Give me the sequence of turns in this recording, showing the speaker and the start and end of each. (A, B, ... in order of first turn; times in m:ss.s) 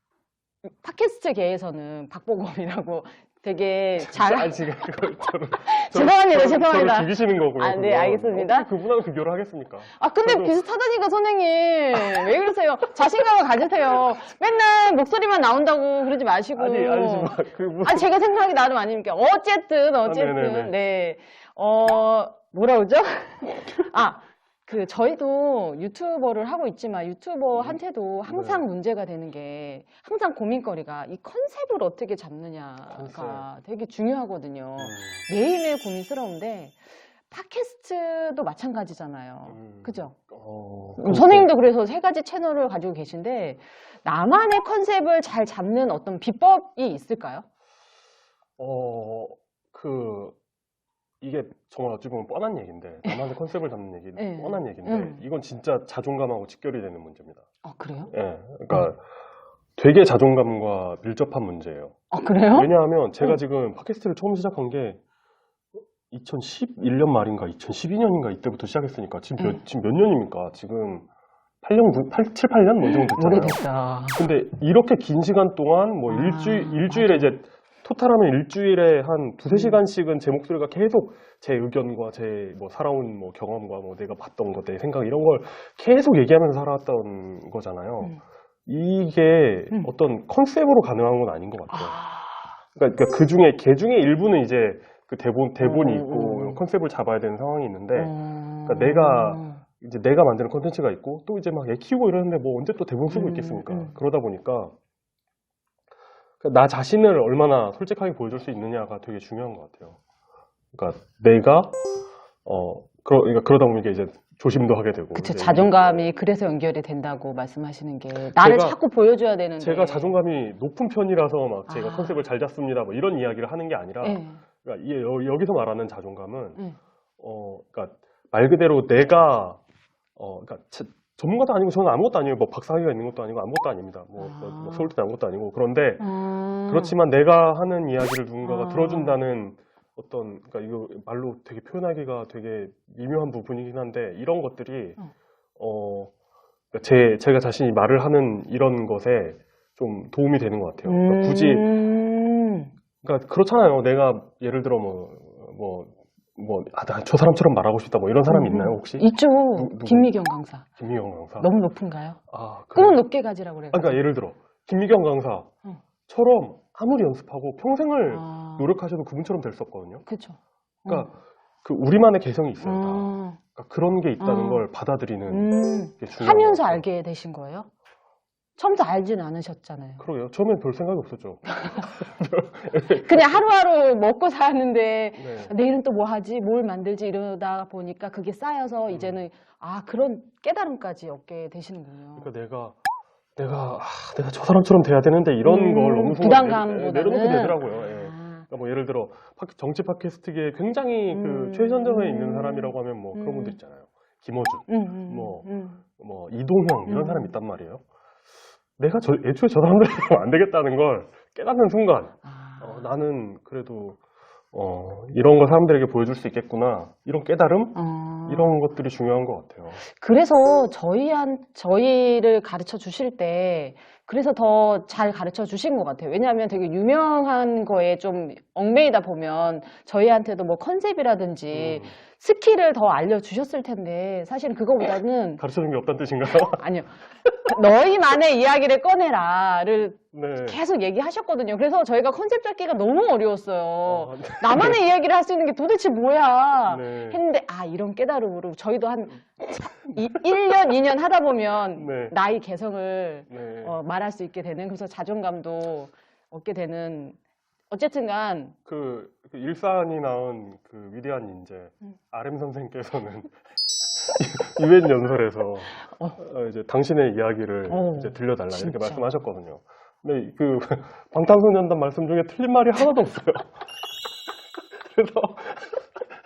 0:00.6-0:08.7 A
0:04.0-0:10.6 B
0:09.9-0:36.8 A
0:16.6-0:18.1 B
0:20.0-0:20.7 B
0:27.5-0:28.6 B
0:32.9-0:33.4 B
0:34.8-0:35.2 B
0:37.3-0:40.1 A
0:39.5-0:41.5 B
0:41.0-0:47.4 A
0:48.6-0:50.4 B
0:51.2-0:57.5 B
0:53.0-0:53.3 A
0:54.2-0:55.2 A
0:57.6-0:58.1 A
0:58.1-0:59.0 B
0:59.8-1:02.0 B
1:02.1-1:03.4 A
1:02.5-1:05.0 B
1:06.1-1:11.1 B
1:11.6-1:13.6 B
1:12.8-1:14.2 A
1:14.1-1:32.0 B
1:16.1-1:17.3 A
1:19.5-1:19.8 A
1:31.7-1:32.6 A
1:32.7-1:44.7 B
1:35.6-1:36.6 A
1:37.9-1:39.6 A
1:43.1-1:43.9 A
1:46.4-1:50.0 B
1:50.7-1:51.7 B
1:52.4-1:56.0 B
1:55.1-2:00.2 A
1:58.2-1:58.8 B
1:59.6-2:06.6 B
2:01.7-2:02.2 A
2:04.0-2:04.4 A
2:07.2-2:09.6 B
2:10.2-2:16.1 B
2:14.2-2:14.9 A
2:16.0-2:17.0 A
2:16.7-2:25.0 B
2:18.4-2:19.2 A
2:25.6-2:26.1 B
2:26.7-2:31.7 B
2:30.8-2:32.7 A
2:33.0-2:40.1 B
2:38.3-2:40.6 A
2:40.8-2:41.5 B
2:41.4-2:42.2 A
2:42.3-2:43.0 B
2:42.7-2:44.0 A
2:43.7-2:45.5 B
2:46.1-2:50.0 B
2:48.1-2:48.7 A
2:50.0-2:51.1 A
2:50.9-2:56.8 B
2:52.6-2:53.4 A
2:54.2-2:54.7 A
2:55.3-2:57.7 A
2:58.6-3:00.0 A
3:00.0-3:03.4 B
3:02.9-3:12.3 A
3:05.2-3:05.5 B
3:08.9-3:09.2 B
3:12.2-3:12.8 B
3:13.4-3:27.8 B
3:15.4-3:18.5 A
3:21.1-3:23.6 A
3:24.7-3:25.8 A
3:26.8-3:27.3 A
3:28.8-3:34.0 B
3:32.2-3:32.9 A
3:34.5-3:39.8 B
3:37.7-3:38.6 A
3:39.8-3:55.4 A
3:51.5-3:51.9 B
3:55.4-3:56.6 B
3:56.3-4:17.2 A
4:00.1-4:00.6 B
4:03.8-4:04.8 B
4:06.6-4:07.2 B
4:11.8-4:12.2 B
4:13.3-4:13.8 B
4:17.7-4:18.6 A
4:18.6-4:23.3 B
4:23.9-4:33.6 B
4:25.8-4:26.2 A
4:27.7-4:29.0 A
4:34.8-4:35.9 B